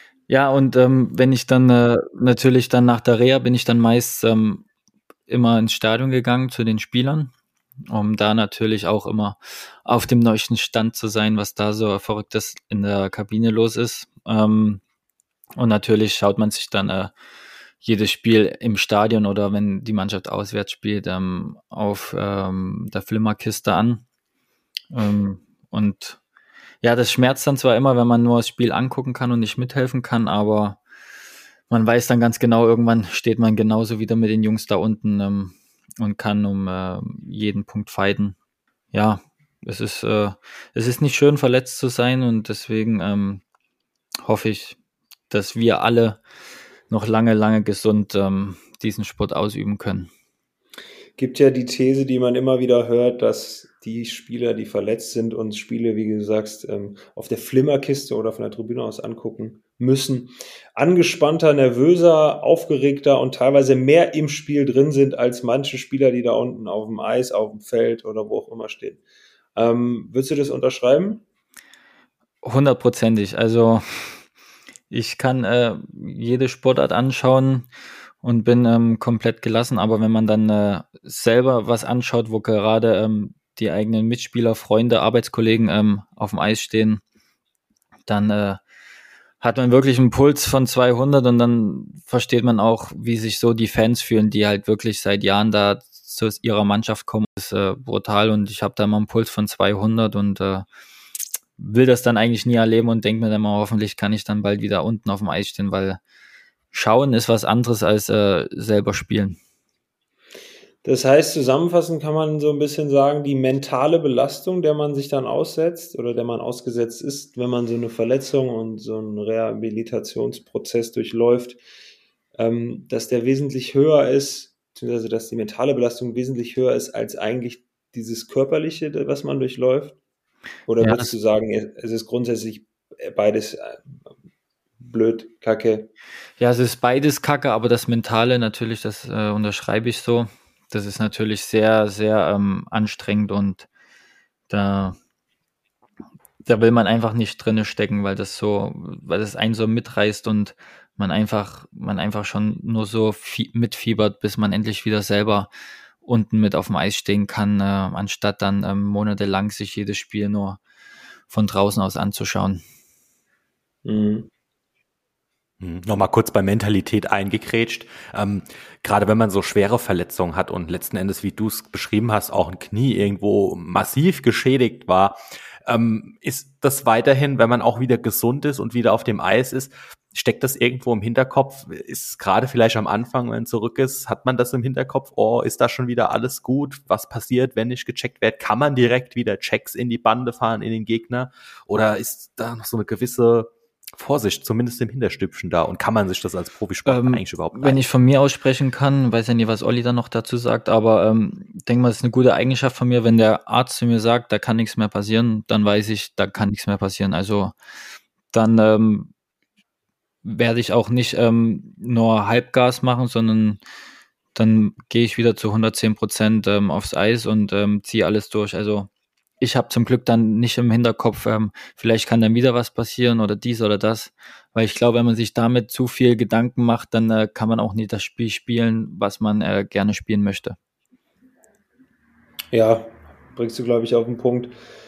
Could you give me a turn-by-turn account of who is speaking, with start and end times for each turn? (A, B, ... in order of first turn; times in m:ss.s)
0:00.3-0:04.6 A
0:05.3-0:07.3 A
0:07.9-0:14.8 A
0:15.6-0:17.1 A
0:17.8-0:24.0 A
0:24.9-0:26.2 A
0:26.8-0:30.8 A
0:31.7-0:38.4 A
0:38.9-0:43.4 A
0:44.2-0:44.8 A
0:45.3-0:46.2 A
0:46.9-0:50.1 A
0:51.2-1:09.0 B
1:09.6-1:11.2 B
1:12.4-1:14.2 A
1:14.9-1:17.7 A
1:18.2-1:27.0 A
1:28.0-1:28.6 A
1:29.4-1:40.6 A
1:41.6-1:46.0 A
1:46.7-1:49.4 A
1:50.8-2:01.6 B
2:02.4-2:10.0 B
2:10.7-2:13.8 B
2:10.8-2:11.1 A
2:14.8-2:15.9 B
2:16.4-2:23.7 A
2:24.5-2:25.0 A
2:26.4-2:35.5 A
2:36.0-2:40.6 A
2:41.3-2:42.6 A
2:43.8-2:44.3 B
2:45.6-3:17.8 C
3:16.8-3:27.5 A
3:28.3-3:29.1 A
3:30.2-3:33.6 A
3:34.3-3:38.9 A
3:39.4-3:50.6 A
3:52.5-3:54.5 B